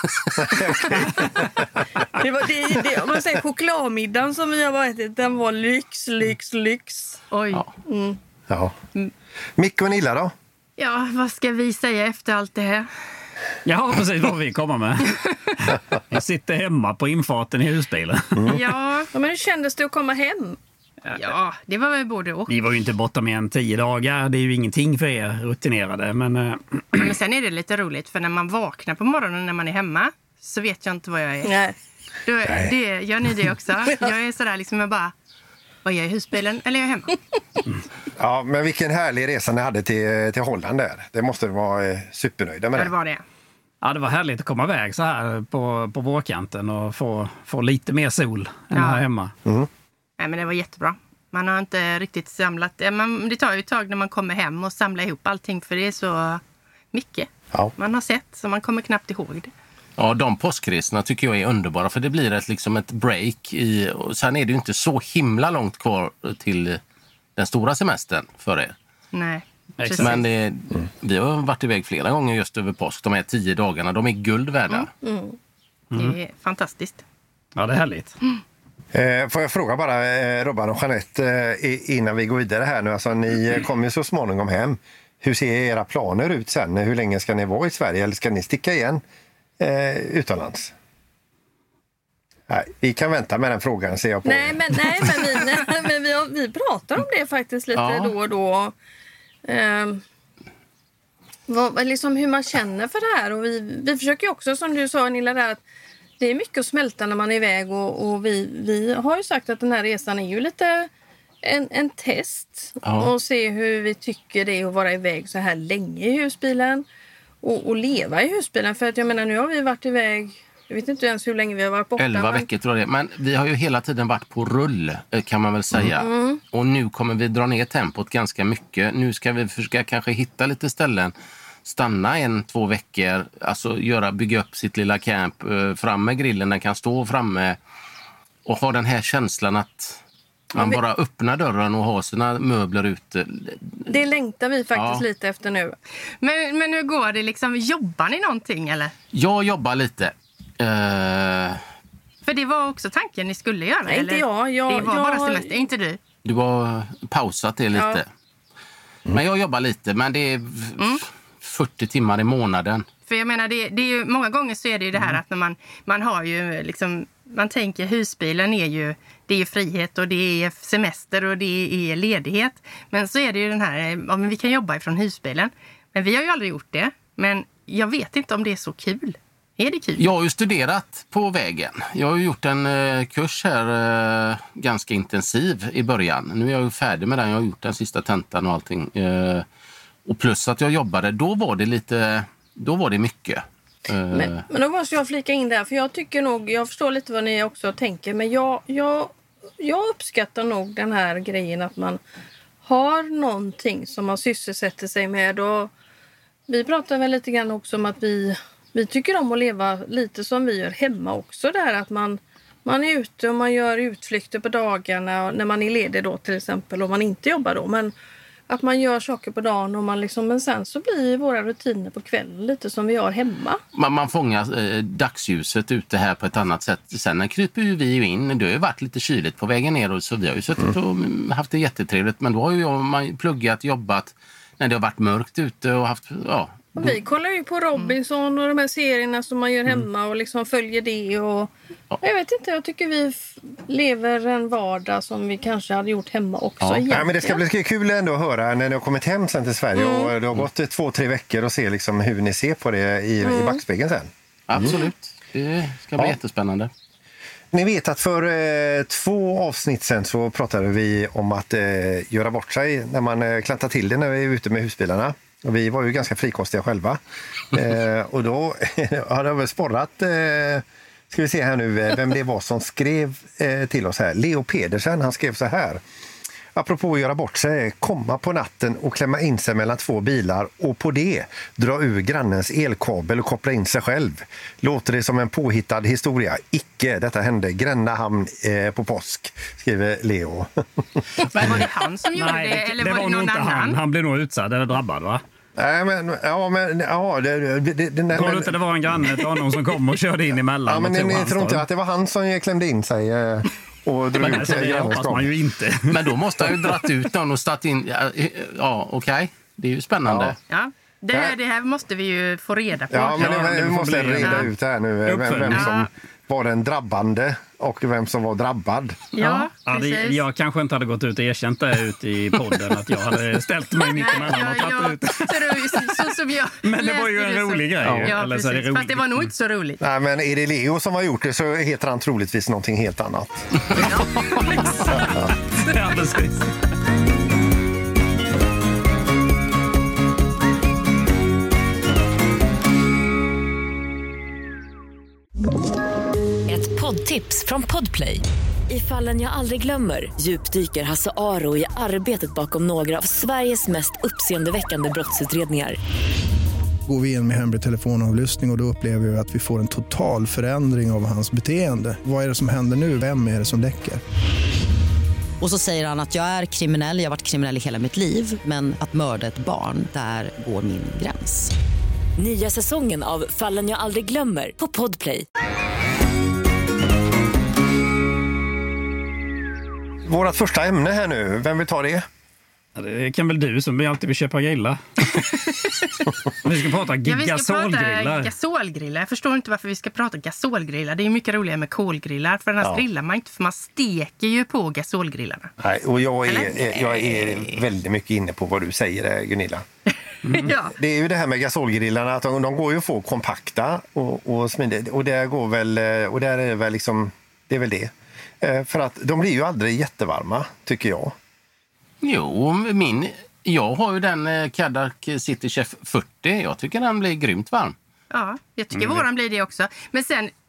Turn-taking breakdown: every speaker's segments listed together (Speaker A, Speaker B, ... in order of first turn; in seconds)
Speaker A: 0.4-7.2, 7.8-8.2, 19.1-20.6, 31.4-31.7, 75.0-75.4, 94.2-98.7, 99.4-100.0, 101.5-105.6, 106.2-110.9, 111.4-116.8, 117.4-122.5, 126.0-126.4, 143.9-145.8, 153.8-155.6, 157.7-158.0, 194.1-202.0, 202.6-205.7, 206.5-217.9, 218.5-223.6, 236.8-241.5, 242.0-247.4, 249.7-250.1, 253.2-253.6
Speaker B: 0.4-1.2, 8.5-8.7, 9.6-10.3, 32.4-32.7, 38.2-42.9, 78.9-89.0, 89.6-90.7, 92.5-95.4, 246.9-254.7, 257.5-267.0, 267.5-275.8, 276.5-291.6, 295.6-298.6, 300.7-305.3, 310.1-310.4, 312.9-319.0, 329.8-333.5, 380.0-382.0, 395.6-399.6, 400.4-411.1
Speaker C: 7.3-7.7, 10.8-12.9, 18.5-19.1, 21.1-22.5, 26.9-31.5, 32.2-35.1, 35.8-37.2, 42.7-43.2, 48.7-49.0, 50.2-56.4, 56.9-59.5, 69.1-70.2, 75.9-77.0, 146.2-148.9, 152.2-156.0, 160.8-161.0, 163.1-180.0, 291.3-293.8, 310.5-314.5, 315.5-315.9, 319.1-320.2, 323.8-329.8, 333.8-335.2, 335.7-336.0, 387.0-395.5, 396.2-397.6, 400.3-400.7, 418.1-420.3
Speaker D: 13.7-18.5, 22.5-27.1, 43.8-49.3, 69.8-70.1, 77.5-78.1, 292.1-295.2, 298.1-301.6, 304.2-305.9, 313.1-314.5, 315.1-315.9, 319.2-326.0, 326.6-329.3, 334.8-336.5, 382.8-385.2, 386.4-388.3, 400.2-400.5
Speaker E: 60.0-66.8, 67.3-68.7, 70.0-74.9, 97.7-98.1, 112.8-113.1, 122.0-131.1, 131.6-137.6, 138.4-140.0, 140.5-143.9, 144.7-145.0, 149.1-151.6, 156.2-158.1, 159.1-162.8, 180.0-189.4, 190.1-194.4, 223.7-237.0, 254.5-256.7, 305.9-310.4, 327.8-328.1, 412.0-417.7
Speaker F: 346.5-355.8, 372.2-375.2
Speaker G: 356.9-364.0
Speaker H: 365.4-371.5